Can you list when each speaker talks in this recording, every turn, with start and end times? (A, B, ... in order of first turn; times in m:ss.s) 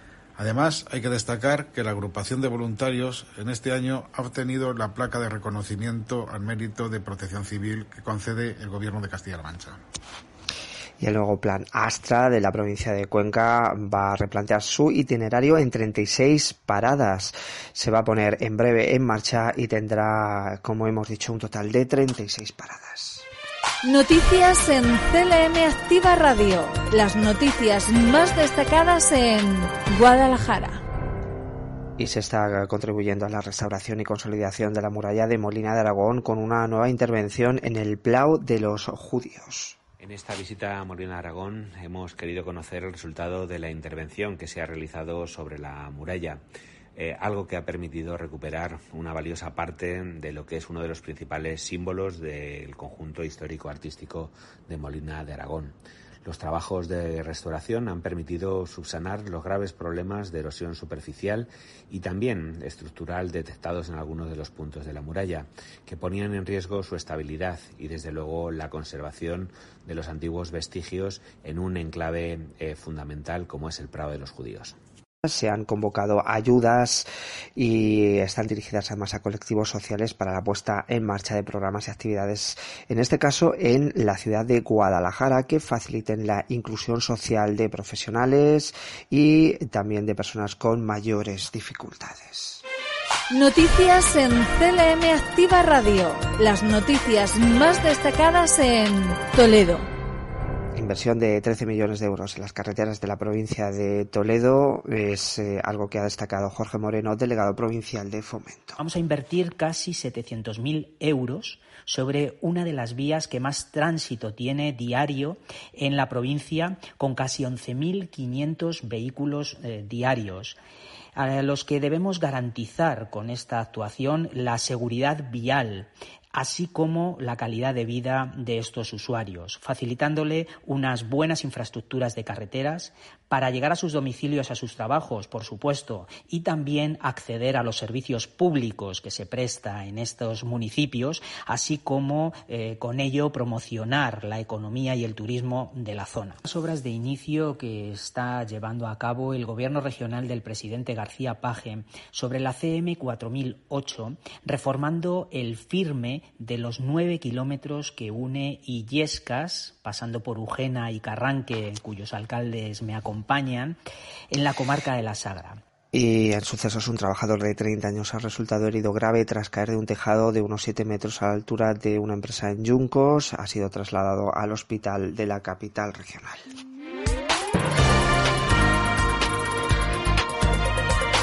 0:00.4-0:09.8 A
0:11.0-0:23.3 B
0:23.8-0:30.8 C
0:32.0-0:39.8 B
0:40.0-0:46.4 D
0:47.0-1:14.8 D
1:15.2-1:32.6 B
1:33.3-1:39.9 C
1:40.7-1:48.8 B
1:48.8-2:00.6 E
2:01.2-2:43.8 E
2:44.3-2:45.6 E
2:45.9-2:56.6 B